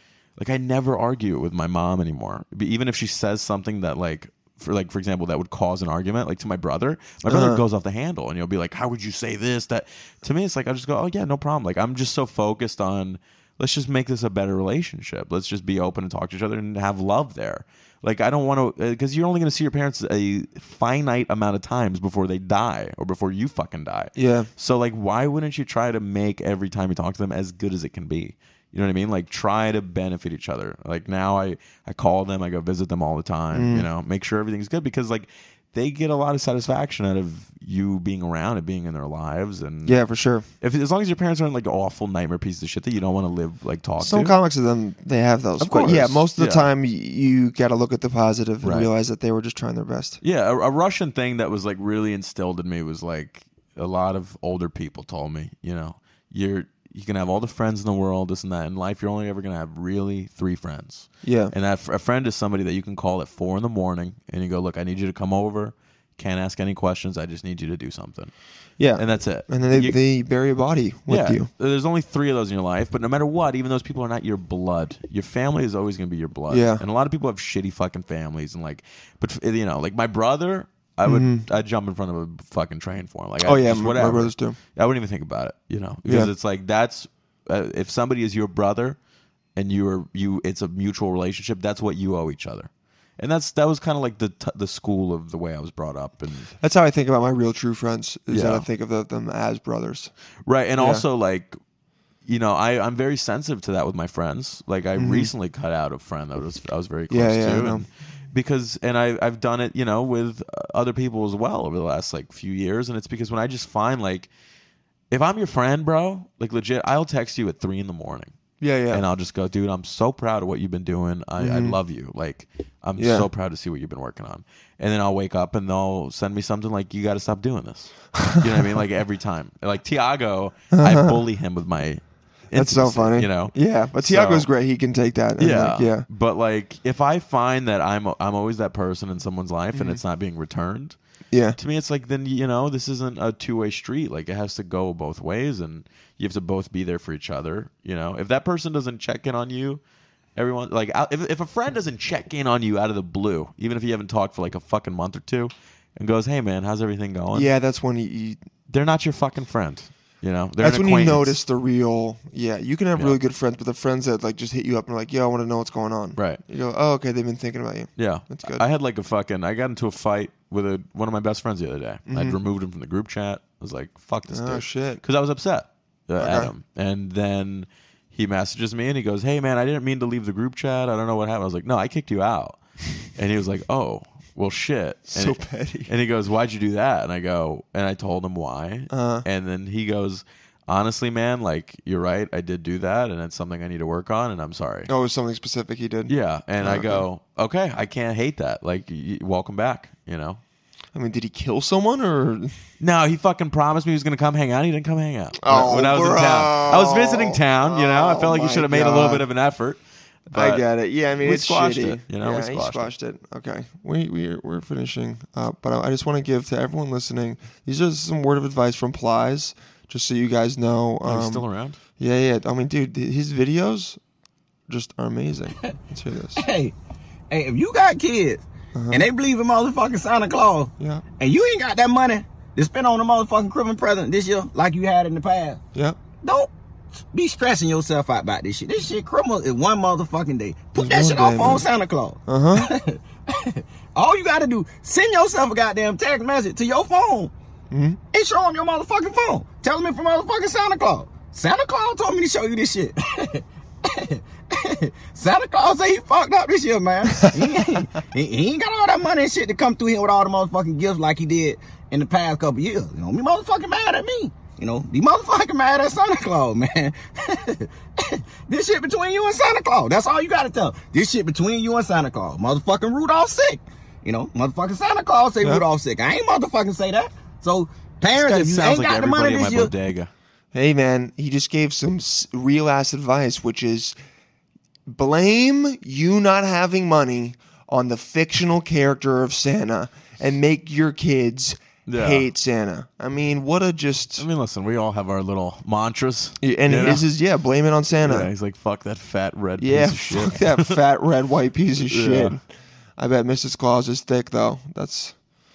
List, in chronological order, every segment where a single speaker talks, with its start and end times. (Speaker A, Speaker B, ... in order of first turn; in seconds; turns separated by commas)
Speaker A: 0.4-40.0, Speaker B: 7.3-7.6, Speaker B: 24.1-24.5, Speaker B: 33.5-33.9, Speaker B: 39.8-40.5, Speaker A: 40.6-44.4, Speaker B: 44.0-50.2, Speaker A: 45.6-46.7, Speaker A: 48.6-48.9, Speaker A: 50.2-68.3, Speaker B: 61.2-61.5, Speaker B: 68.8-71.5, Speaker A: 68.9-70.0, Speaker A: 71.1-89.0, Speaker B: 76.5-76.8, Speaker B: 81.0-81.4, Speaker B: 83.4-84.6, Speaker B: 86.0-86.3, Speaker A: 89.5-96.5, Speaker B: 96.6-100.1, Speaker A: 98.3-98.7, Speaker A: 100.5-101.6, Speaker B: 100.8-101.0, Speaker A: 102.2-114.3, Speaker B: 105.0-105.3, Speaker B: 107.1-107.8, Speaker A: 115.1-118.3, Speaker B: 118.6-119.0, Speaker A: 118.9-134.5, Speaker B: 121.4-121.8, Speaker B: 123.0-123.3, Speaker B: 128.2-128.4, Speaker B: 130.7-131.2, Speaker B: 132.5-136.1, Speaker A: 135.4-140.9, Speaker B: 139.7-140.0, Speaker B: 141.3-141.6, Speaker A: 141.6-149.8, Speaker A: 150.3-157.5, Speaker B: 157.3-158.4, Speaker A: 158.7-161.4, Speaker B: 160.6-168.6, Speaker A: 166.2-166.4, Speaker A: 168.0-194.9, Speaker B: 172.1-172.4, Speaker B: 174.3-175.0, Speaker B: 176.2-176.5, Speaker B: 185.1-185.9, Speaker B: 188.9-189.2, Speaker B: 194.9-197.0, Speaker A: 196.1-200.4, Speaker B: 200.9-202.5, Speaker A: 202.8-210.6, Speaker B: 205.4-209.2, Speaker B: 210.3-221.4, Speaker A: 211.2-212.9, Speaker A: 221.0-221.8, Speaker B: 222.0-224.0, Speaker B: 224.7-226.4, Speaker C: 226.3-226.7, Speaker C: 227.3-235.6, Speaker B: 228.7-229.1, Speaker B: 230.8-231.0, Speaker C: 236.2-236.5, Speaker C: 237.1-247.3, Speaker B: 240.8-241.7, Speaker B: 242.2-242.7, Speaker B: 247.7-248.0, Speaker C: 248.1-279.7, Speaker A: 278.1-280.1, Speaker B: 280.5-283.9, Speaker B: 284.9-294.2, Speaker A: 291.9-292.3, Speaker A: 294.2-297.1, Speaker B: 296.4-298.3, Speaker A: 298.0-300.8, Speaker B: 299.6-305.2, Speaker A: 301.9-302.4